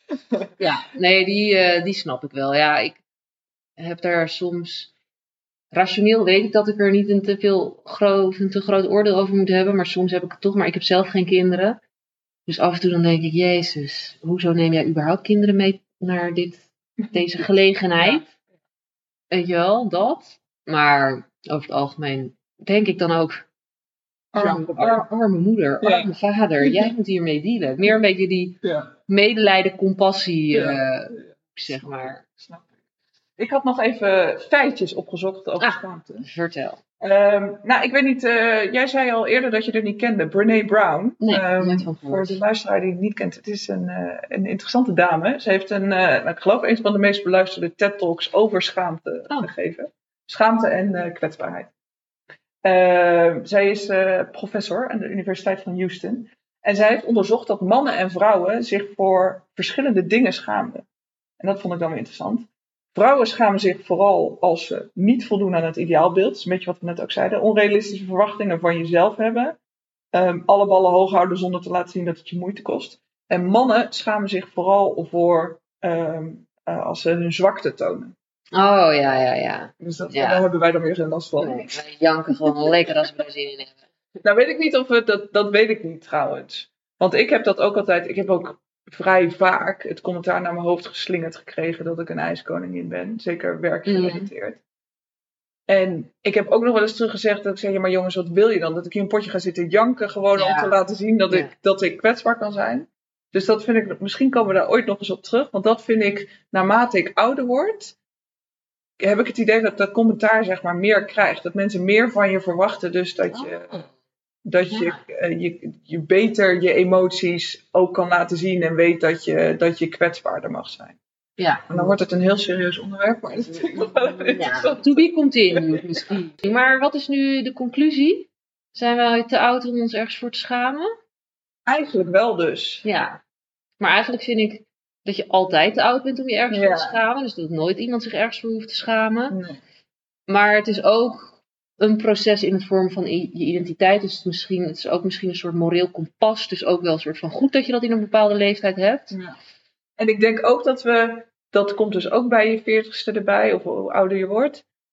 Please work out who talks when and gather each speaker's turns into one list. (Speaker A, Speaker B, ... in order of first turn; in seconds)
Speaker A: 0.6-3.0, 3.8-4.9, 5.7-11.8, 12.4-18.2, 19.3-23.4, 24.3-32.2, 35.6-36.8, 41.2-42.4, 78.5-80.4, 81.4-83.9, 93.8-94.3, 100.3-100.8, 113.3-113.9, 114.7-115.0, 121.4-121.9, 123.8-130.9, 132.8-133.2, 133.8-139.4, 140.3-149.2
Speaker B: 17.0-18.3, 24.3-25.1, 25.8-26.1, 26.6-26.9, 28.6-28.9, 30.5-32.7, 33.4-36.3, 37.0-51.7, 52.6-60.8, 61.4-69.6, 70.1-78.1, 79.8-81.8, 82.4-82.7, 84.2-94.6, 95.7-108.0, 109.0-113.8, 114.4-121.0, 121.7-125.0, 125.5-126.0, 131.7-132.8, 136.5-137.0, 139.3-139.6, 149.1-149.4, 150.0-154.6